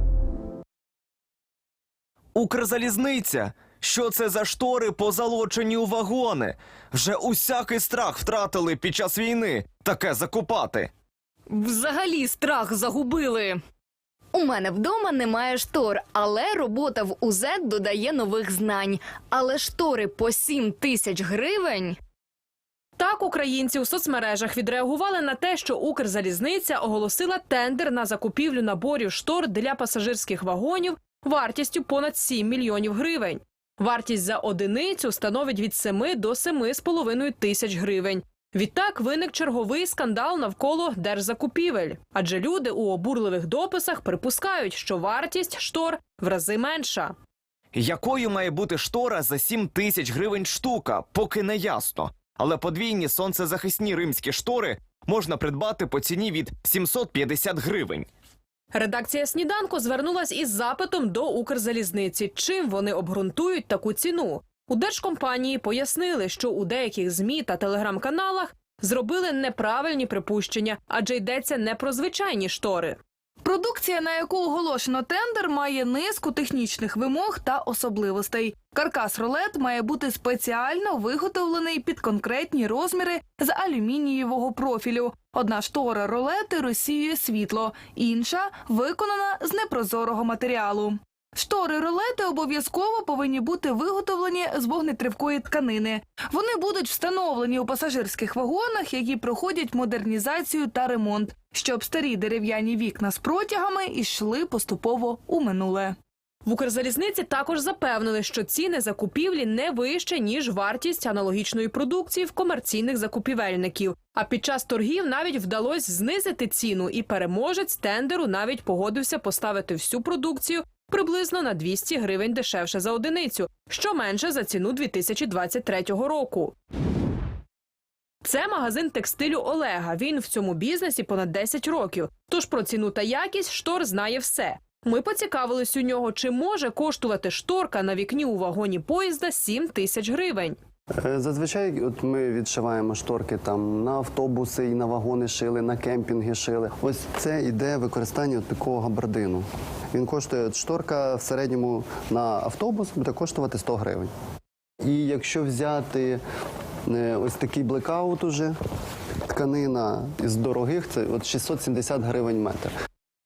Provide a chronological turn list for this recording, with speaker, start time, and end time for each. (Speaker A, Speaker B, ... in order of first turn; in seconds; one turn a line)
Speaker A: 2.3-10.9
Speaker B: 11.5-13.6
Speaker B: 14.3-22.0
Speaker C: 23.0-47.1
Speaker A: 47.7-58.1
Speaker C: 58.7-73.0
Speaker D: 73.4-106.0
Speaker C: 106.4-126.5
Speaker C: 128.2-140.6
Speaker E: 141.0-154.1
Speaker E: 154.8-156.2
Speaker E: 156.8-158.5
Speaker E: 159.3-162.7